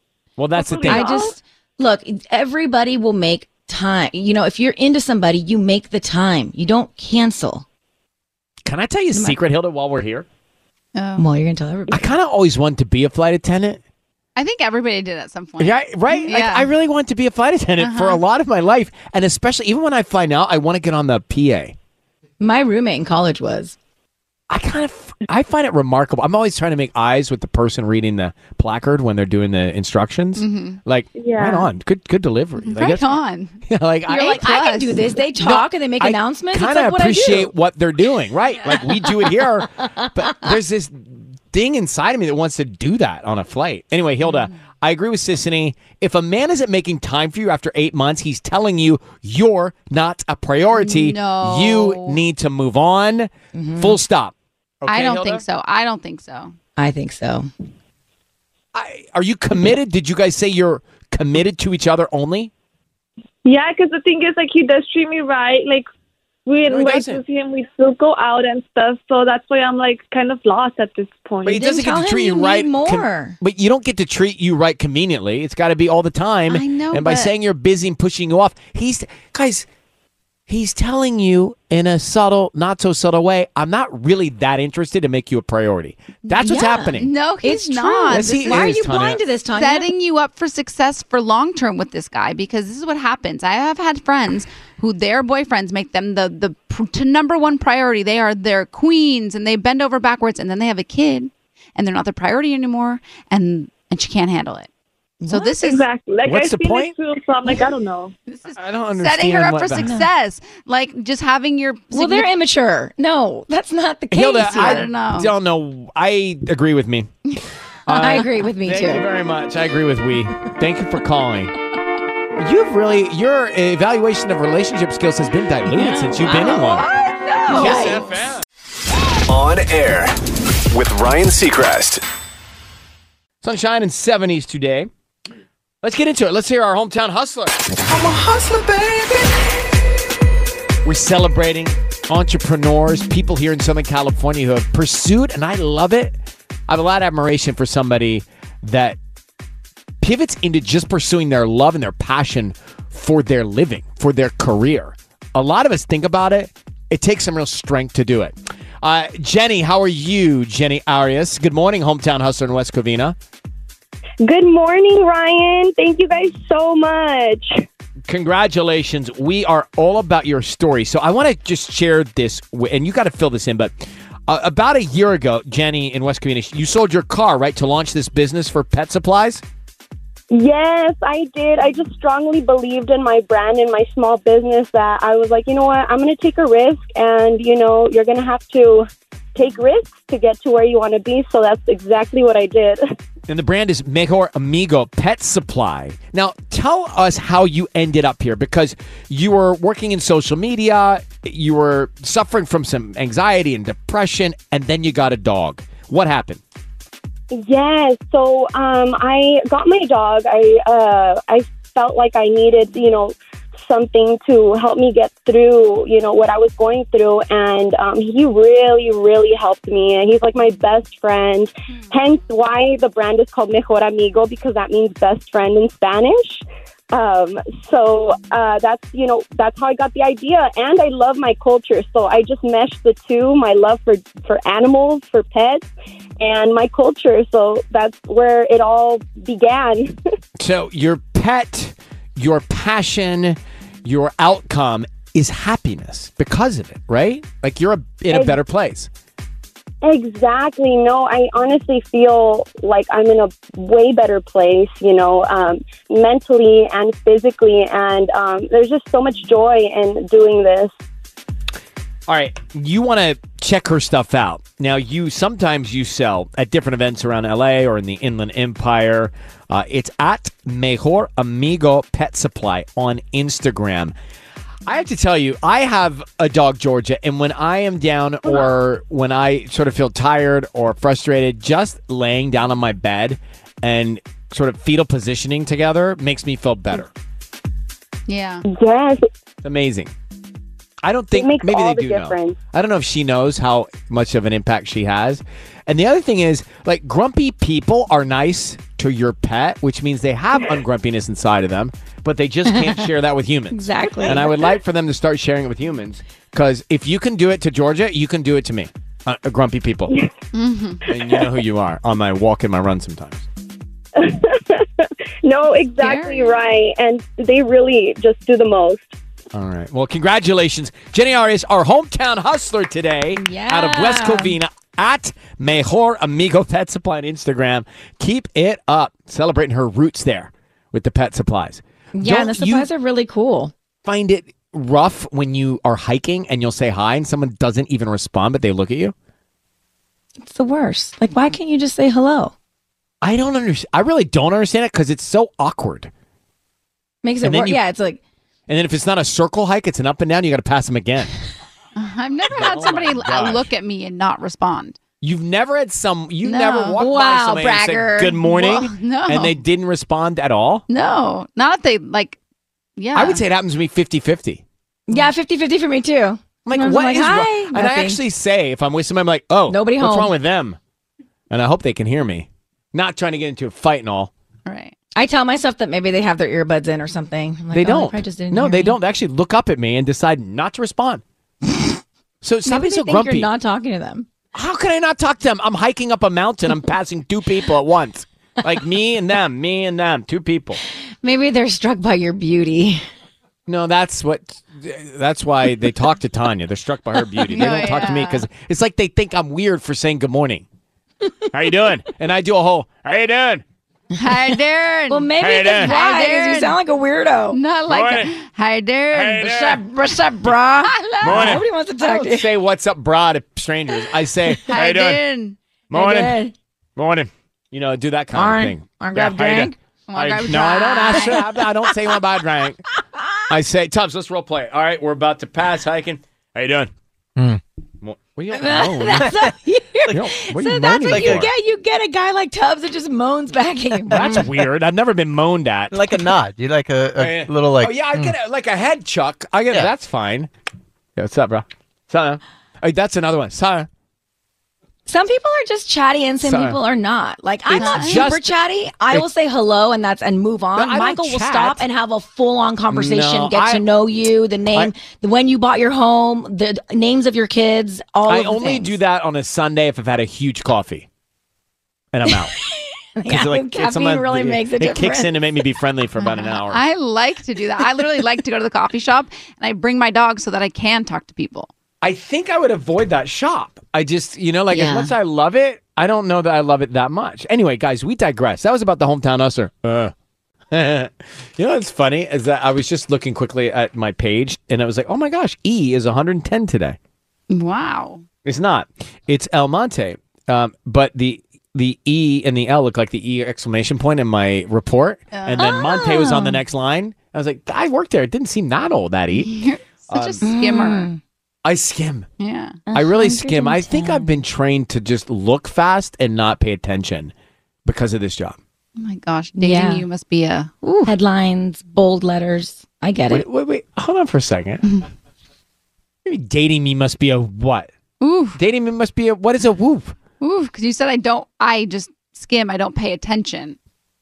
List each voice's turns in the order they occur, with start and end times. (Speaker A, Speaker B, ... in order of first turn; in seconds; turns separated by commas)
Speaker A: 0.4-1.2, Speaker B: 0.5-1.3, Speaker C: 0.8-7.6, Speaker A: 8.6-10.2, Speaker C: 9.1-9.4, Speaker D: 10.9-11.2, Speaker C: 11.2-12.1, Speaker A: 11.9-13.8, Speaker D: 14.3-16.7, Speaker A: 15.6-21.7, Speaker D: 17.8-18.2, Speaker C: 22.4-23.8, Speaker A: 24.5-34.4, Speaker D: 30.4-30.8, Speaker B: 31.1-31.7, Speaker D: 32.6-33.6, Speaker C: 34.1-37.5, Speaker D: 34.1-35.1, Speaker A: 35.4-55.4, Speaker C: 38.8-40.5, Speaker D: 50.8-52.2, Speaker C: 53.5-54.0, Speaker D: 54.9-56.5, Speaker C: 56.8-57.5, Speaker A: 58.7-62.5, Speaker B: 63.4-65.8, Speaker B: 66.5-71.6, Speaker A: 66.7-67.2, Speaker A: 71.4-79.7, Speaker C: 71.5-73.4, Speaker D: 76.5-77.3, Speaker A: 80.5-87.1, Speaker C: 86.4-89.9, Speaker D: 87.0-88.7, Speaker A: 88.1-89.2, Speaker D: 89.5-104.7, Speaker C: 105.2-105.5, Speaker D: 105.3-105.8, Speaker B: 105.6-108.1, Speaker A: 106.2-106.9, Speaker D: 108.3-112.3, Speaker A: 108.5-110.0, Speaker C: 111.9-114.9, Speaker A: 114.1-117.2, Speaker D: 114.5-115.3, Speaker A: 117.9-121.5, Speaker C: 117.9-119.1, Speaker A: 122.3-126.9, Speaker C: 125.7-128.0, Speaker A: 127.5-128.4, Speaker E: 129.3-130.1, Speaker E: 130.7-132.0, Speaker A: 133.4-134.9, Speaker A: 135.8-137.6, Speaker A: 140.8-146.2, Speaker A: 146.7-149.0, Speaker A: 150.0-163.2, Speaker F: 164.2-167.6, Speaker A: 168.1-173.7, Speaker A: 174.3-179.4, Speaker F: 180.3-192.8, Speaker A: 193.3-206.4, Speaker F: 207.3-235.7, Speaker F: 236.2-240.0, Speaker A: 240.4-248.9, Speaker F: 248.1-248.4, Speaker F: 249.8-260.7, Speaker A: 262.1-273.9, Speaker A: 274.6-286.9, Speaker D: 288.1-288.4, Speaker F: 288.5-289.0, Speaker A: 289.4-289.9, Speaker A: 290.8-309.9, Speaker F: 291.1-292.4, Speaker C: 303.5-304.3, Speaker D: 310.3-310.8, Speaker A: 310.9-313.2, Speaker F: 313.9-318.9, Speaker D: 315.8-316.3, Speaker A: 319.3-332.7, Speaker C: 323.2-324.4, Speaker C: 331.9-333.5, Speaker A: 333.8-338.9, Speaker C: 340.2-342.3, Speaker A: 343.0-345.9, Speaker C: 347.0-348.0, Speaker A: 347.2-347.6, Speaker A: 348.5-351.1, Speaker D: 351.8-354.8, Speaker A: 352.3-353.5, Speaker A: 355.0-360.6, Speaker D: 356.2-356.8, Speaker C: 356.8-358.2, Speaker D: 358.2-359.4, Speaker D: 360.7-362.2, Speaker D: 362.8-363.2, Speaker A: 362.9-364.4, Speaker C: 364.9-368.0, Speaker A: 366.4-370.6, Speaker C: 369.5-370.1, Speaker A: 371.3-374.1, Speaker D: 374.4-374.7, Speaker C: 374.9-378.8, Speaker A: 377.5-381.0, Speaker A: 382.2-383.3, Speaker C: 382.4-384.1, Speaker A: 384.3-390.6, Speaker C: 391.0-392.8, Speaker A: 393.5-400.4, Speaker D: 397.3-398.2, Speaker A: 401.3-403.4, Speaker D: 403.9-406.6, Speaker C: 404.9-407.4, Speaker A: 405.2-405.8, Speaker D: 407.3-409.3, Speaker A: 407.7-408.1, Speaker A: 408.9-409.6, Speaker C: 409.2-412.3, Speaker D: 410.6-411.4, Speaker A: 411.0-415.0, Speaker D: 414.5-415.4, Speaker A: 415.7-416.2, Speaker C: 415.7-416.3, Speaker A: 416.8-422.6, Speaker C: 418.1-419.5, Speaker D: 419.9-421.2, Speaker A: 423.3-426.7, Speaker A: 427.8-429.2, Speaker C: 428.3-434.3, Speaker A: 429.9-431.3, Speaker G: 430.9-431.2, Speaker A: 433.9-435.8, Speaker G: 435.7-438.1, Speaker A: 437.0-440.3, Speaker A: 440.9-443.7, Speaker C: 444.9-458.8, Speaker A: 446.2-446.6, Speaker A: 447.5-448.4, Speaker D: 447.6-448.1, Speaker A: 450.5-451.6, Speaker A: 452.7-453.6, Speaker A: 458.1-460.9, Speaker A: 461.9-462.3, Speaker C: 462.1-465.2, Speaker A: 463.0-466.6, Speaker D: 466.0-471.5, Speaker A: 471.8-479.9, Speaker C: 474.5-474.9, Speaker A: 480.5-486.8, Speaker D: 487.3-488.0, Speaker A: 488.2-499.3, Speaker D: 495.1-495.6, Speaker C: 495.4-496.4, Speaker D: 499.2-500.9, Speaker A: 499.9-500.2, Speaker C: 500.2-501.0, Speaker A: 501.4-502.1, Speaker D: 502.2-502.6, Speaker C: 502.7-504.2, Speaker A: 502.7-507.1, Speaker A: 507.6-508.4, Speaker D: 508.8-510.9, Speaker C: 509.4-509.8, Speaker C: 510.8-513.2, Speaker A: 513.1-514.6, Speaker A: 516.0-517.7, Speaker D: 518.0-518.4, Speaker A: 518.3-520.0, Speaker D: 520.2-523.6